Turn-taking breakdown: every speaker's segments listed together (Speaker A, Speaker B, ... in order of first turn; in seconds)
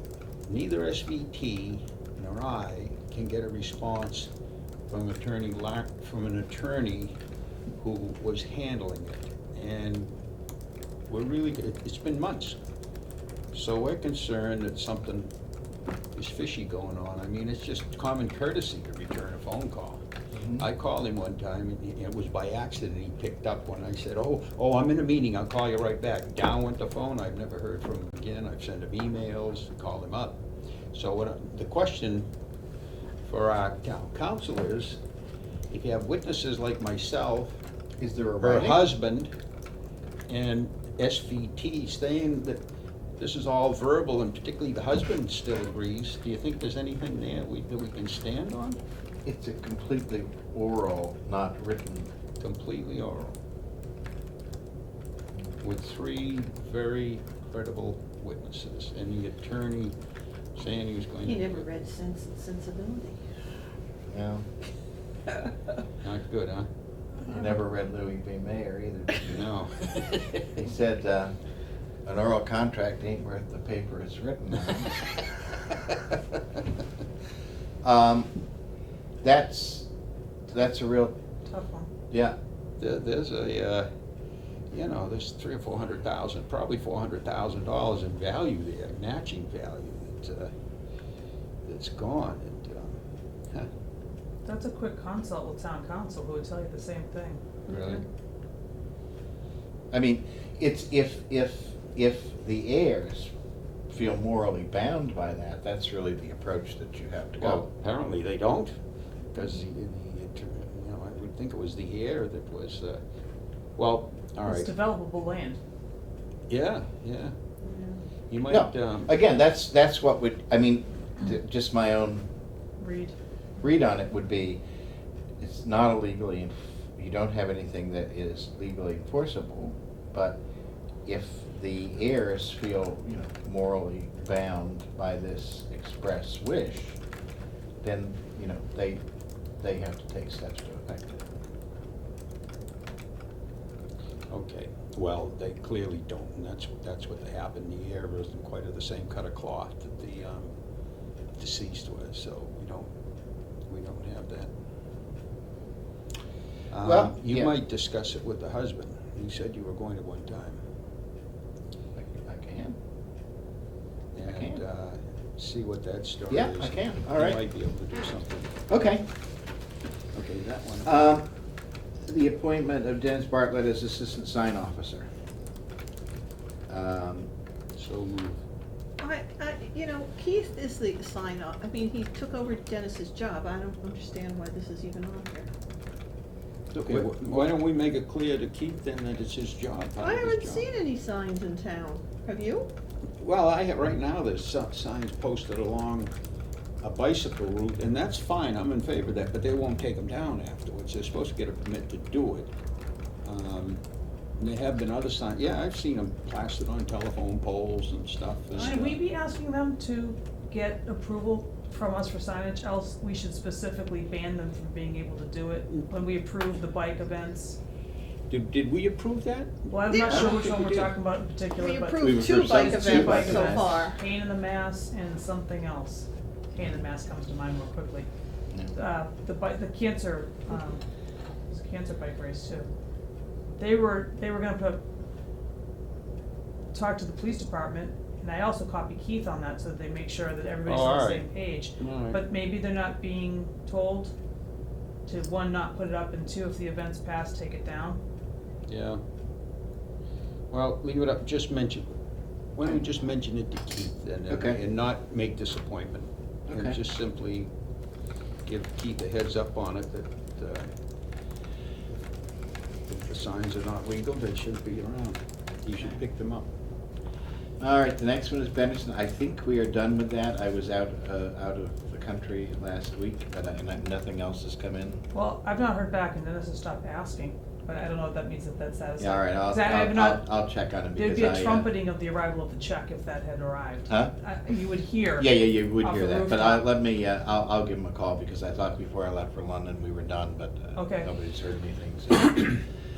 Speaker A: 0.5-4.3, 4.9-7.2, 7.8-10.1, 11.1-12.6, 13.5-15.3, 16.1-20.0, 20.6-30.4, 30.9-32.3, 33.2-35.0, 35.7-37.6, 38.4-39.3, 40.3-42.6, 43.2-48.8, 52.4-53.4, 55.6-59.9, 60.5-61.7, 66.0-66.7, 69.3-70.3, 82.8-83.9, 84.7-90.5, 91.7-93.0, 97.7-98.0, 107.4-108.8, 109.3-113.0, 113.8-114.7, 116.5-117.3, 118.3-119.1, 144.3-150.5, 151.3-152.9, 153.7-154.5, 156.7-160.6, 164.2-168.6, 170.1-171.0, 177.8-178.4, 186.7-190.7, 193.2-196.1, 196.8-202.5, 203.2-203.8, 204.4-209.0, 218.3-220.9, 240.7-241.3, 241.8-242.2, 248.7-249.0, 250.5-251.9, 252.6-257.5, 258.5-260.7, 262.9-266.5
Speaker B: 20.3-20.7, 38.0-38.8, 49.3-52.1, 64.1-64.5, 67.2-69.5, 70.5-71.3, 72.0-75.2, 77.8-78.3, 79.2-79.9, 80.5-81.2, 82.1-82.4, 99.9-103.3, 103.9-107.7, 118.5-122.3, 123.6-124.6, 125.4-130.4, 131.1-137.0, 137.8-139.0, 139.6-141.2, 156.8-157.5, 162.0-162.8, 164.2-164.6, 166.3-167.4, 168.7-169.1, 170.8-171.3, 172.1-175.1, 176.7-177.3, 186.8-187.1, 222.0-223.9, 254.3-254.6, 256.5-256.8, 267.6-275.0, 279.0-281.7, 285.2-292.6
Speaker C: 61.2-63.2, 97.7-98.0, 117.6-118.0, 179.0-185.5, 190.0-192.7, 219.9-220.4, 221.6-224.0
Speaker D: 81.5-81.9, 94.5-97.4, 114.5-115.6, 122.8-123.2, 208.5-217.6, 219.7-228.1, 228.7-230.8, 231.5-232.7, 233.6-234.8, 236.7-244.1, 245.1-248.0, 275.1-280.3, 281.0-286.6, 290.8-291.1